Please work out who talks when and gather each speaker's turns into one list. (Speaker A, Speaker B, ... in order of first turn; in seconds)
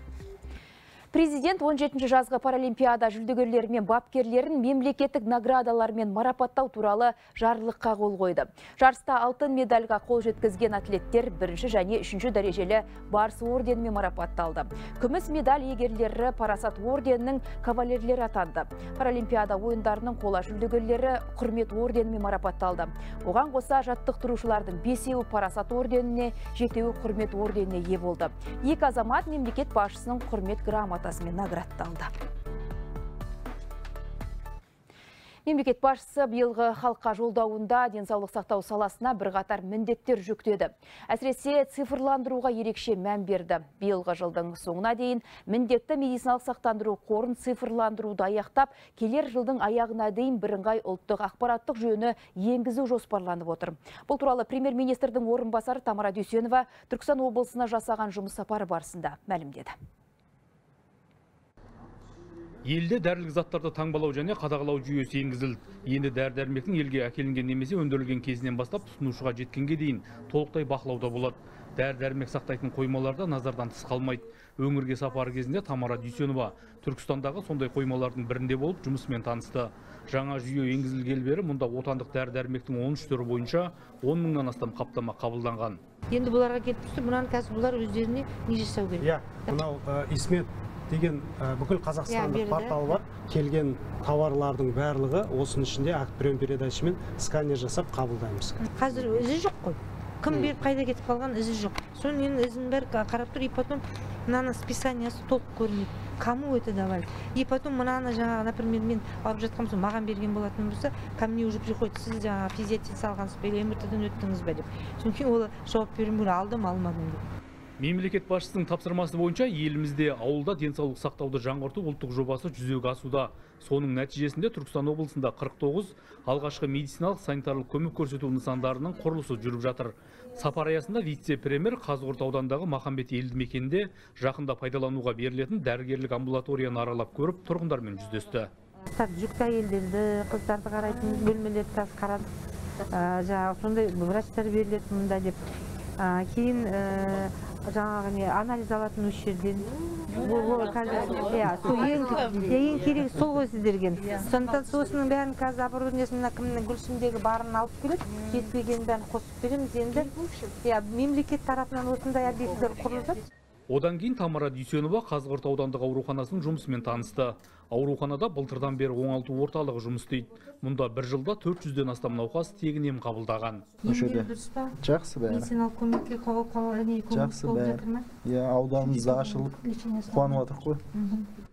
Speaker A: 1.1-32.1, 35.5-59.7
Speaker B: 62.6-85.8, 117.8-138.5, 163.7-173.7
Speaker C: 86.1-89.6, 92.0-92.9, 98.6-117.2, 138.9-142.3, 142.9-145.4, 146.0-163.2, 173.8-178.1, 178.8-181.3
Speaker D: 89.0-99.2
Speaker E: 173.8-175.5, 177.1-180.8